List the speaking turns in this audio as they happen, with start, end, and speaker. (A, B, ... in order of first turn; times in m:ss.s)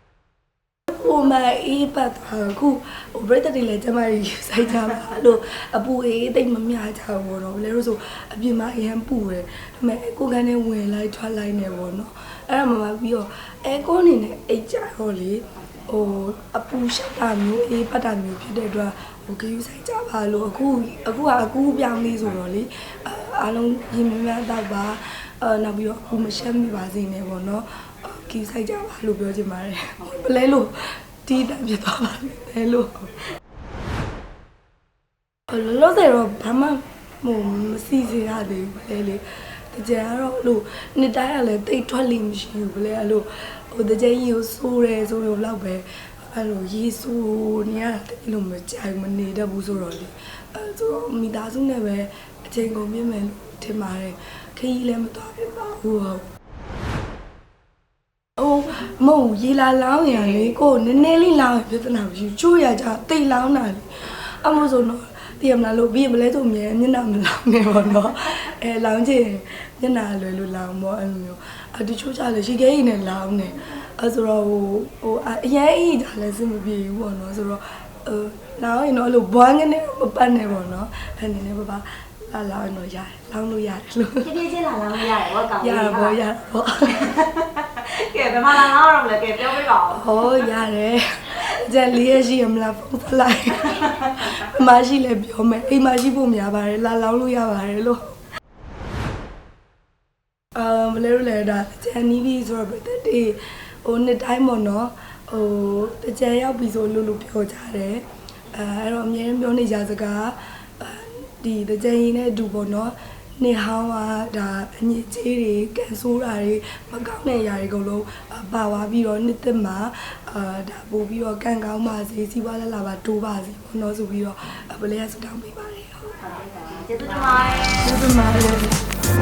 0:00.9-0:33.2 A
0:35.5-0:56.3 A
0:58.4-1:24.3 A
1:24.2-1:26.2 B
1:25.6-1:27.2 A
1:27.0-1:30.2 B
1:29.9-1:38.2 A
1:40.5-2:06.2 A
2:06.4-2:07.8 B
2:07.8-2:08.9 A